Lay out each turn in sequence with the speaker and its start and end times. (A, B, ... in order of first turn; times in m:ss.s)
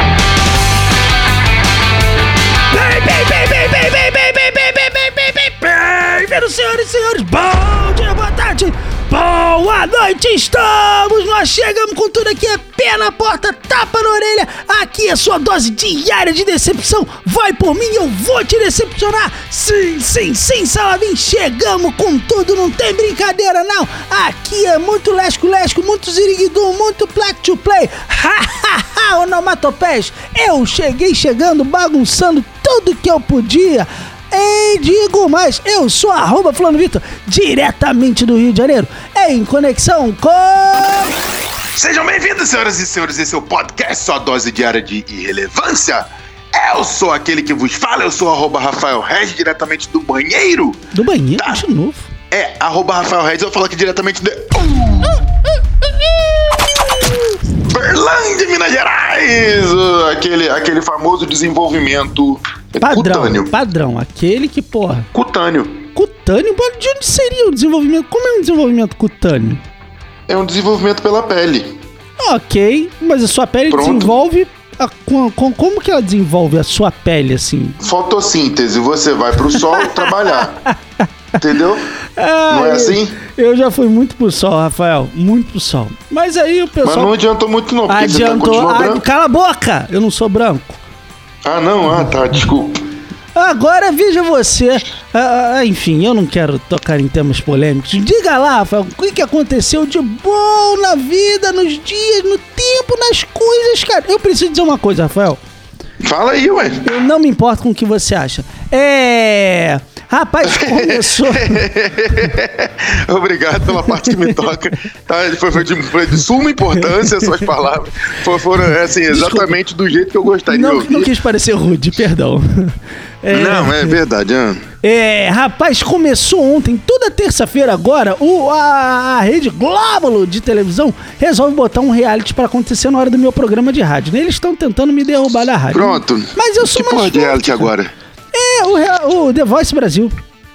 0:02.7-0:41.2 A
0:41.7-0:50.8 B
0:50.9-0:52.1 A
0:52.3-0:55.2 B
0:57.6-1:03.5 B
1:02.8-1:05.1 A
1:05.1-1:05.8 B
1:05.9-1:09.6 A
1:10.3-1:11.7 B
1:12.2-1:17.8 A
1:13.7-1:14.1 B
1:17.8-1:20.6 B
1:19.4-1:20.8 A
1:21.4-1:21.9 B
1:22.2-1:27.1 A
1:22.5-1:23.2 B
1:26.8-1:29.0 B
1:27.9-1:30.8 A
1:31.4-1:32.8 B
1:33.3-1:45.4 A
1:46.0-1:46.9 B
1:46.8-1:51.6 A
1:50.4-2:01.1 B
1:53.7-1:54.4 A
1:56.8-1:57.4 A
1:59.1-1:59.6 A
2:00.5-2:04.0 A
2:03.3-2:04.6 B
2:04.8-2:17.7 A
2:15.7-2:17.9 B
2:18.3-2:20.1 A